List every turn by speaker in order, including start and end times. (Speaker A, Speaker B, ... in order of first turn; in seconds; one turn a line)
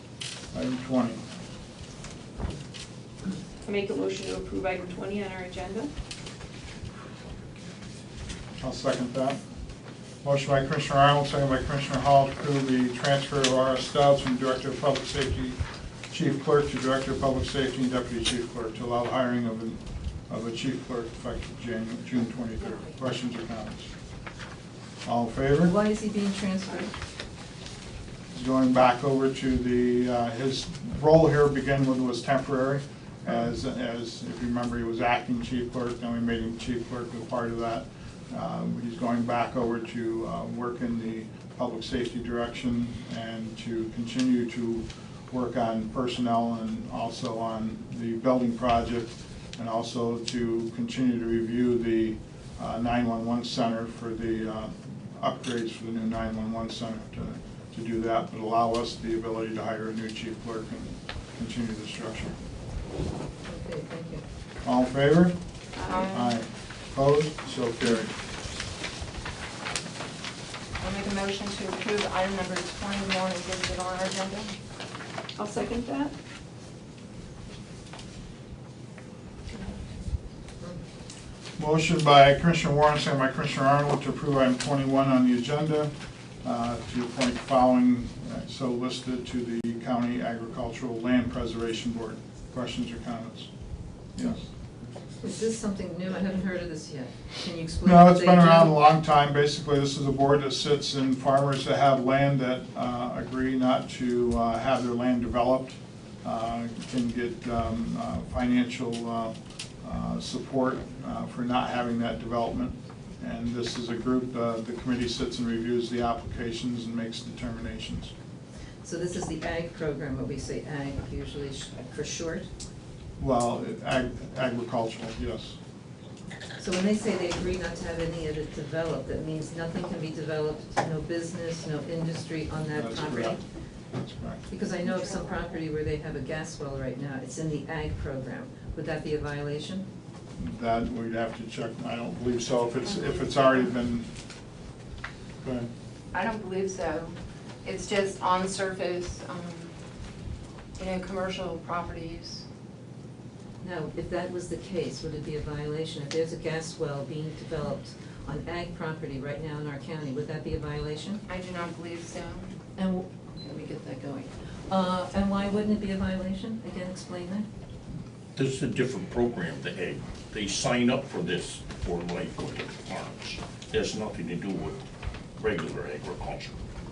Speaker A: 0.5-1.2
Speaker B: 3.6-5.9
Speaker A: 8.6-9.4
Speaker A: 10.2-15.6
Speaker A: 16.1-23.9
Speaker A: 25.1-25.7
Speaker C: 25.6-26.9
Speaker A: 28.3-62.4
Speaker C: 63.5-64.2
Speaker A: 64.6-65.3
Speaker B: 65.8-66.1
Speaker D: 65.9-66.3
Speaker A: 66.1-68.1
Speaker D: 70.8-74.5
Speaker B: 75.4-76.1
Speaker A: 81.6-85.9
Speaker A: 86.4-93.5
Speaker A: 94.2-94.4
Speaker C: 95.2-98.8
Speaker A: 97.8-118.1
Speaker C: 118.8-122.5
Speaker A: 123.2-125.6
Speaker C: 126.6-133.4
Speaker A: 132.7-133.4
Speaker A: 133.9-134.5
Speaker C: 134.5-139.9
Speaker A: 140.4-144.1
Speaker A: 145.4-145.7
Speaker D: 146.1-149.8
Speaker D: 150.8-152.4
Speaker C: 153.6-161.2
Speaker D: 161.3-162.5
Speaker C: 162.8-167.5
Speaker E: 168.4-174.8
Speaker E: 175.4-176.6